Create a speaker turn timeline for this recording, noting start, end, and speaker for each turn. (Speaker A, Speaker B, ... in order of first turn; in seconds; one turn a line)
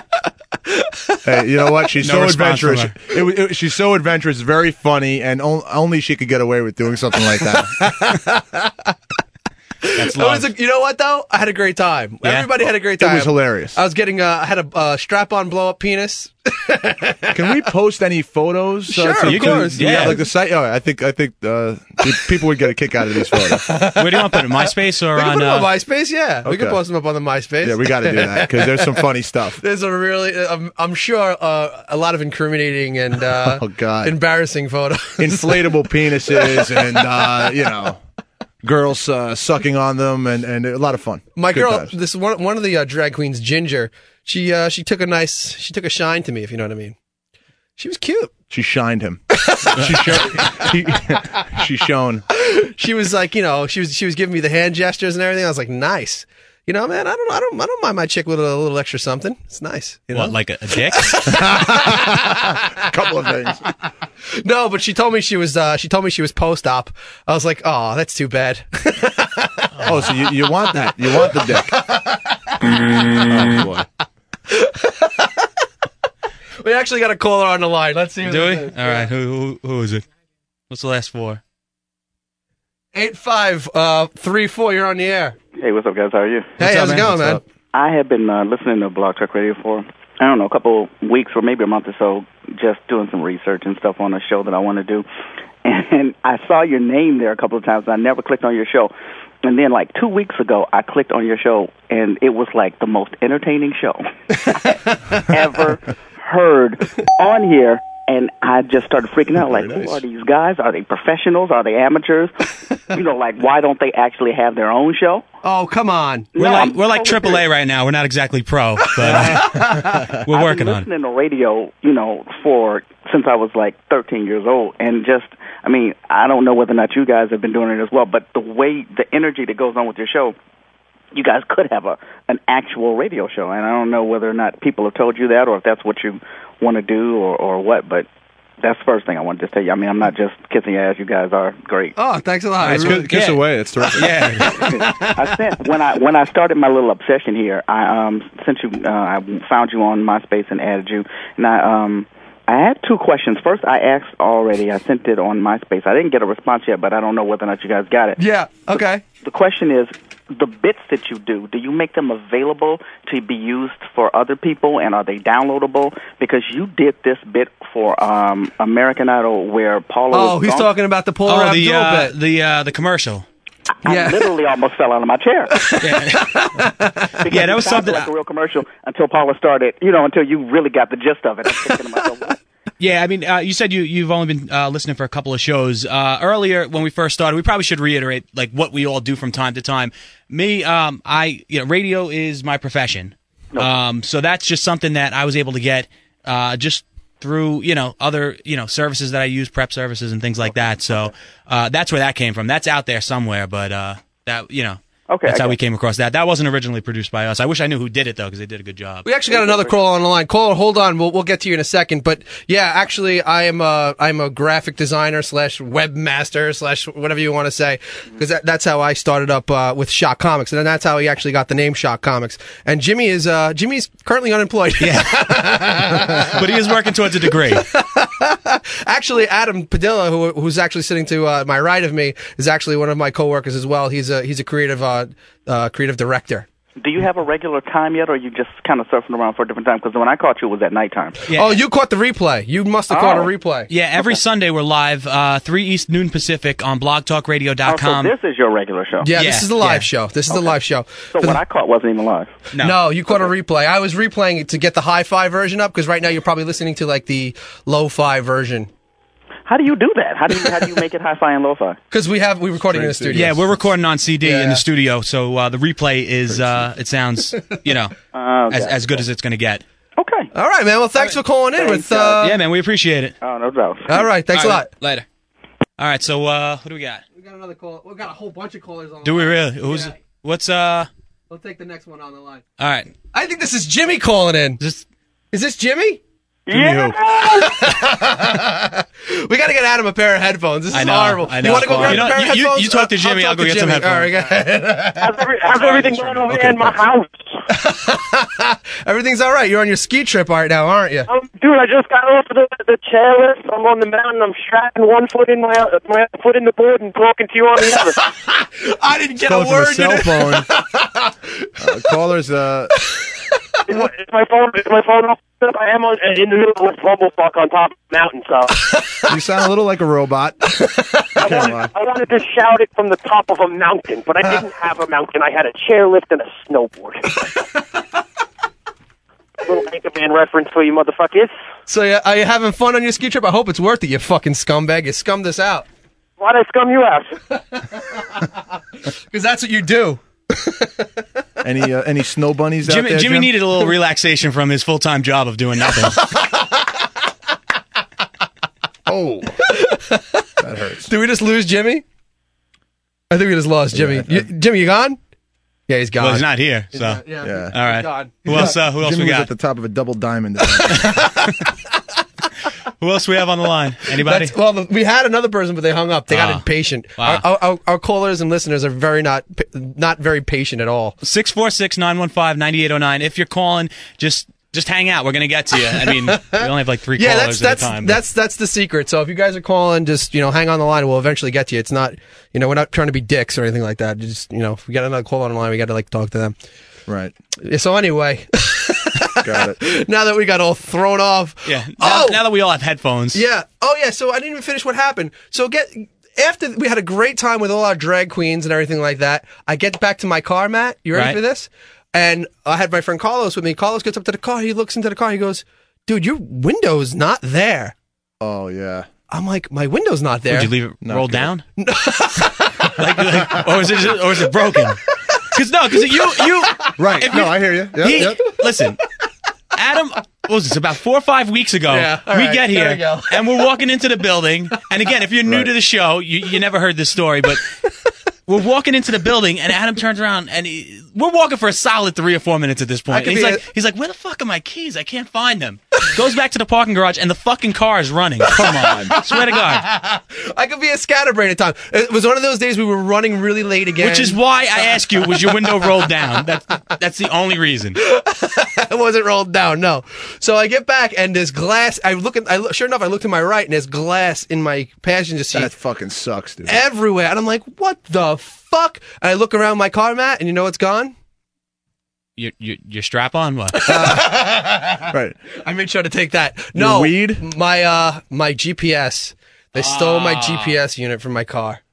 Speaker A: 0.7-1.2
Speaker B: 1.2-7.8
Speaker C: 2.0-3.0
Speaker A: 7.8-8.9
Speaker A: 9.8-17.6
Speaker C: 9.9-10.5
Speaker C: 12.2-12.5
Speaker B: 13.0-13.8
Speaker B: 17.3-23.6
Speaker A: 18.9-20.2
Speaker C: 19.2-20.2
Speaker A: 23.4-24.5
Speaker C: 23.9-25.7
Speaker A: 25.1-29.0
Speaker B: 26.4-26.8
Speaker B: 27.6-29.6
Speaker A: 29.6-37.5
Speaker B: 33.4-34.2
Speaker B: 35.2-38.0
Speaker B: 38.6-41.9
Speaker A: 41.4-47.0
Speaker A: 47.8-48.3
Speaker B: 48.5-52.2
Speaker A: 49.5-50.0
Speaker A: 52.4-60.2
Speaker C: 60.1-61.5
Speaker A: 61.0-62.6
Speaker B: 61.3-63.6
Speaker A: 64.3-70.3
Speaker C: 69.8-70.1
Speaker B: 69.8-71.8
Speaker A: 71.0-72.7
Speaker B: 73.0-73.9
Speaker A: 74.5-75.5
Speaker A: 76.6-79.1
Speaker C: 78.2-80.0
Speaker C: 80.7-81.4
Speaker A: 82.9-85.4
Speaker D: 85.6-86.5
Speaker A: 86.6-87.4
Speaker C: 86.6-87.4
Speaker B: 86.7-87.4
Speaker D: 87.7-95.1
Speaker D: 95.6-98.9
Speaker D: 99.4-104.0
Speaker D: 105.2-112.3
Speaker B: 109.5-110.0
Speaker D: 112.9-115.2
Speaker A: 115.4-116.5
Speaker D: 116.3-117.4
Speaker C: 116.4-120.9
Speaker A: 119.0-120.1
Speaker D: 120.3-130.3
Speaker D: 131.1-138.1
Speaker D: 138.6-141.9
Speaker A: 142.0-143.1
Speaker C: 142.6-144.7
Speaker B: 142.6-144.4
Speaker A: 144.2-145.4
Speaker D: 144.7-158.2
Speaker A: 158.2-159.1
Speaker D: 159.2-170.7
Speaker A: 170.1-172.1
Speaker C: 171.3-173.3
Speaker D: 173.8-175.6
Speaker A: 173.9-174.2
Speaker A: 175.6-177.1
Speaker C: 175.8-176.7
Speaker D: 177.2-182.4
Speaker C: 177.3-178.1
Speaker C: 182.8-209.1
Speaker D: 205.1-205.6
Speaker A: 209.1-226.4
Speaker D: 209.3-209.8
Speaker C: 224.8-225.4
Speaker C: 226.2-227.7
Speaker A: 227.3-236.5
Speaker D: 236.8-241.2
Speaker C: 241.3-241.6
Speaker A: 241.3-243.7
Speaker D: 242.9-243.3
Speaker C: 243.7-248.1
Speaker D: 247.7-249.1
Speaker A: 249.0-251.4
Speaker C: 249.1-249.9
Speaker D: 250.3-250.6
Speaker D: 251.1-252.3
Speaker C: 252.5-252.8
Speaker A: 252.6-258.7
Speaker D: 259.5-261.8
Speaker A: 261.9-263.4
Speaker B: 262.6-263.6
Speaker C: 263.1-267.9
Speaker A: 264.2-264.6
Speaker B: 266.3-266.7
Speaker D: 268.1-269.0
Speaker C: 268.5-269.6
Speaker D: 270.0-270.3
Speaker A: 270.3-272.4
Speaker C: 271.0-273.2
Speaker D: 271.6-272.1
Speaker D: 273.2-273.9
Speaker A: 273.9-274.7
Speaker C: 274.0-275.1
Speaker C: 275.8-277.0
Speaker A: 277.2-279.9
Speaker C: 279.0-280.9
Speaker A: 281.3-282.4
Speaker C: 282.6-282.9
Speaker A: 283.1-284.6
Speaker A: 285.3-286.0
Speaker E: 286.5-287.6
Speaker B: 286.5-287.0
Speaker A: 287.3-295.2
Speaker C: 290.7-294.1
Speaker E: 295.0-297.4
Speaker B: 295.8-296.8
Speaker A: 297.5-301.1
Speaker E: 301.1-308.0
Speaker A: 308.2-311.5
Speaker B: 309.2-310.5
Speaker B: 311.6-312.7
Speaker E: 313.7-318.7
Speaker B: 319.1-320.5
Speaker B: 321.2-321.7
Speaker E: 321.2-327.1
Speaker E: 329.5-331.3
Speaker A: 331.7-335.7
Speaker E: 336.2-337.2
Speaker A: 337.7-338.2
Speaker A: 339.1-340.9
Speaker B: 341.4-343.4
Speaker C: 342.6-346.1
Speaker B: 348.9-349.4
Speaker A: 349.5-350.3
Speaker B: 350.4-350.9
Speaker A: 350.9-351.8
Speaker A: 353.1-355.0
Speaker B: 353.7-354.3
Speaker A: 355.7-358.5
Speaker C: 356.0-359.3
Speaker B: 357.2-357.6
Speaker B: 358.3-361.0
Speaker C: 360.7-361.3
Speaker C: 362.8-364.3
Speaker A: 364.0-371.0
Speaker C: 366.1-366.5
Speaker C: 367.0-367.2
Speaker C: 371.0-378.0
Speaker A: 375.7-386.4
Speaker B: 386.9-387.1
Speaker A: 387.4-392.2
Speaker B: 389.2-389.6
Speaker C: 391.4-393.2
Speaker A: 393.1-407.7
Speaker C: 400.9-401.2
Speaker B: 408.2-408.9
Speaker A: 409.1-410.5
Speaker C: 410.3-411.4
Speaker B: 410.8-411.3
Speaker A: 411.6-413.4
Speaker C: 412.8-414.8
Speaker C: 415.3-418.8
Speaker A: 415.8-416.7
Speaker B: 416.8-418.3
Speaker C: 419.6-427.5
Speaker A: 421.7-423.4
Speaker B: 425.3-425.5
Speaker C: 428.3-439.7
Speaker A: 432.9-433.4
Speaker B: 438.4-438.9
Speaker A: 439.1-445.9
Speaker C: 443.8-447.8
Speaker A: 447.8-455.5
Speaker B: 455.3-456.6
Speaker A: 456.5-460.9
Speaker C: 462.2-463.8
Speaker A: 463.5-464.9
Speaker B: 463.7-464.3
Speaker B: 464.8-465.2
Speaker A: 465.4-471.6
Speaker B: 466.6-467.2
Speaker C: 469.6-470.6